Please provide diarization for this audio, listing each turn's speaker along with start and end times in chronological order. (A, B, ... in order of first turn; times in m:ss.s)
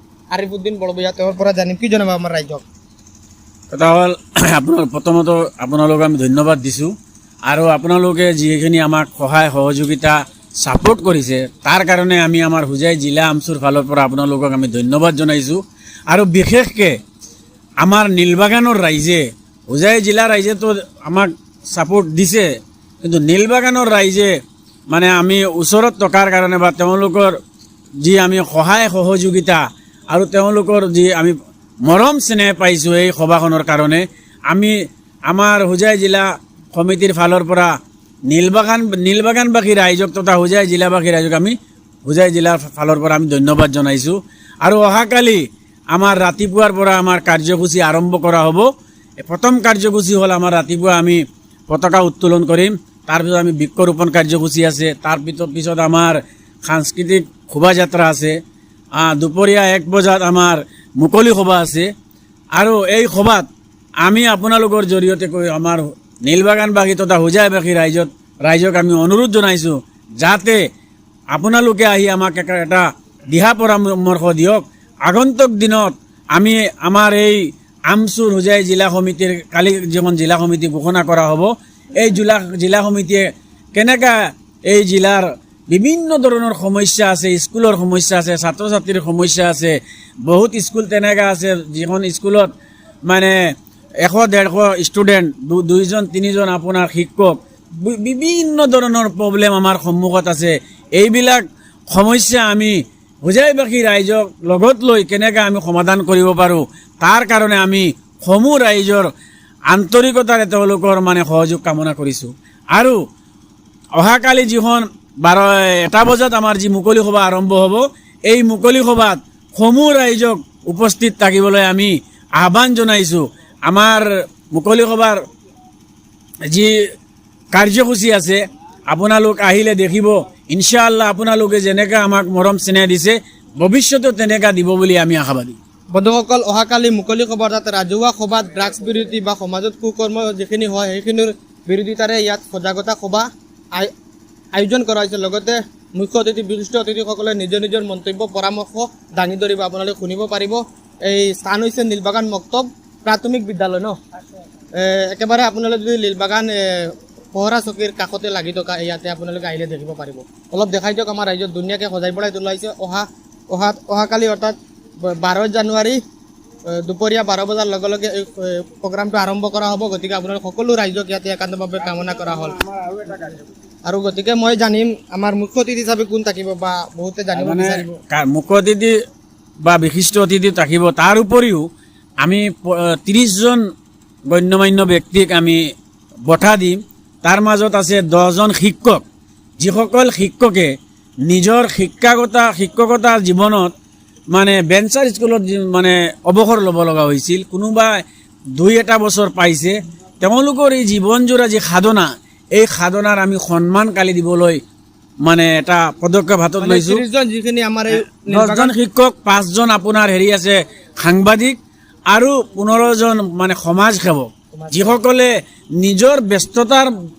0:00.3-0:02.6 A
0:03.7-0:06.9 B
0:07.5-0:16.9 B
0:17.8-0:22.5 B
0:23.0-0:24.3 B
0:24.9-0:27.3 B
0:28.0-0:34.8 B
0:35.3-0:37.7 B
0:38.3-0:48.7 B
0:49.2-0:58.4 B
0:59.0-1:01.9 B
1:02.6-1:03.5 B
1:04.0-1:10.6 B
1:11.3-1:32.5 B
1:33.1-1:33.4 B
1:34.0-1:49.1 B
1:49.7-1:53.0 B
1:54.0-2:05.2 B
2:07.5-2:15.6 B
2:15.9-2:23.9 A
2:24.5-2:34.0 A
2:34.8-2:46.0 A
2:46.7-2:52.6 A
2:51.8-2:53.4 B
2:53.9-2:58.0 A
2:57.3-2:58.9 B
2:59.6-3:01.6 B
3:02.2-3:03.6 B
3:04.3-3:05.6 B
3:06.3-3:09.0 B
3:09.6-3:10.7 B
3:11.2-3:13.7 B
3:14.3-3:18.0 B
3:18.6-3:24.6 B
3:25.2-3:27.0 B
3:26.6-3:28.7 A
3:28.3-3:31.6 B
3:32.1-3:36.9 B
3:34.5-3:35.0 A